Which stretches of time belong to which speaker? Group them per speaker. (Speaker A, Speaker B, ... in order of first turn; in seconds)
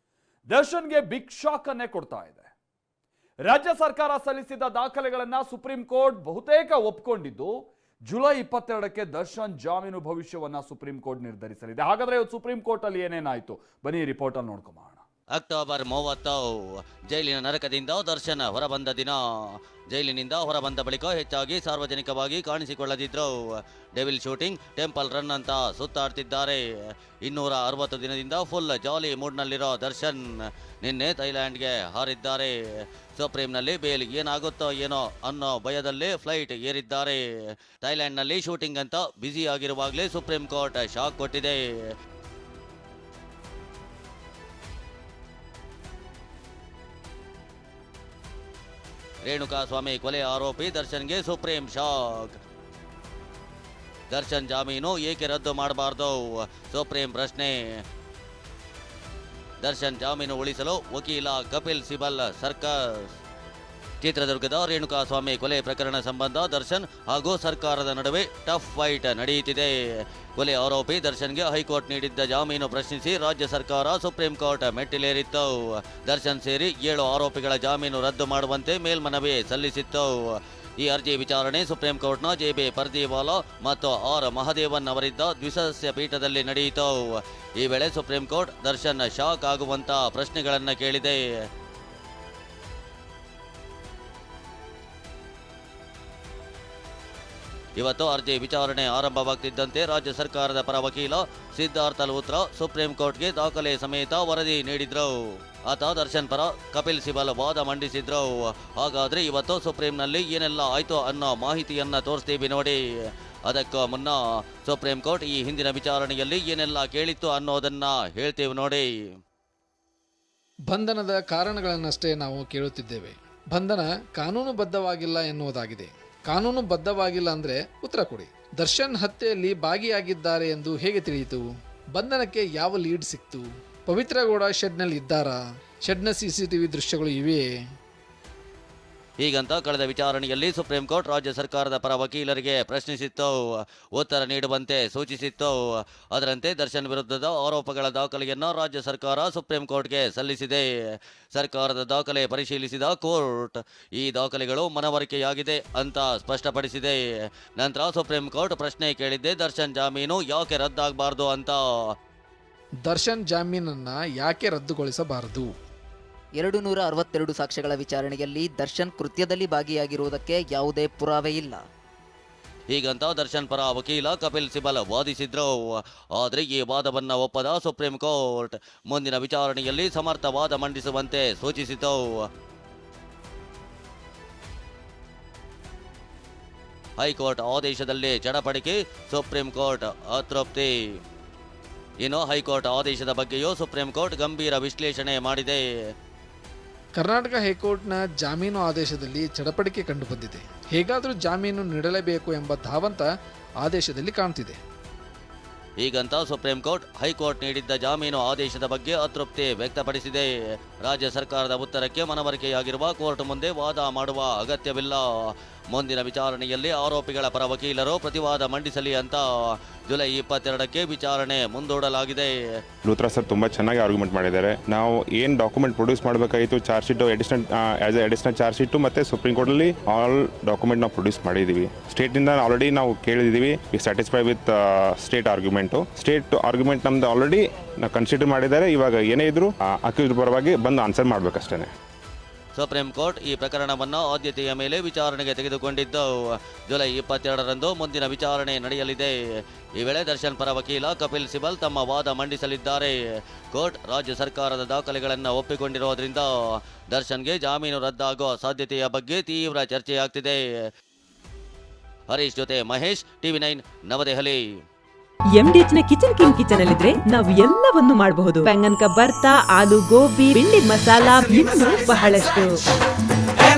Speaker A: 0.5-2.5, 3.4-7.5, 8.1-15.0
Speaker B: 15.3-19.2, 19.9-23.4, 23.9-26.6, 27.2-30.2, 30.8-32.5, 33.1-37.2, 37.8-41.6, 49.2-52.3, 54.1-57.5, 59.6-62.8, 64.0-69.7, 70.4-80.1, 80.8-91.2, 97.8-112.8, 113.5-118.9, 139.2-145.6, 146.1-150.7, 151.3-157.0, 157.6-161.6, 172.7-175.6, 176.2-182.0, 187.0-190.7, 192.0-195.6, 205.8-210.3, 210.8-219.2, 219.9-222.3, 242.5-246.1, 246.7-249.1, 249.8-252.9, 253.5-256.3, 256.9-260.4, 262.1-264.4
Speaker C: 120.7-137.4, 162.9-165.5, 197.0-203.1, 203.6-204.6
Speaker D: 166.4-171.6
Speaker E: 222.9-241.7
Speaker F: 265.3-272.6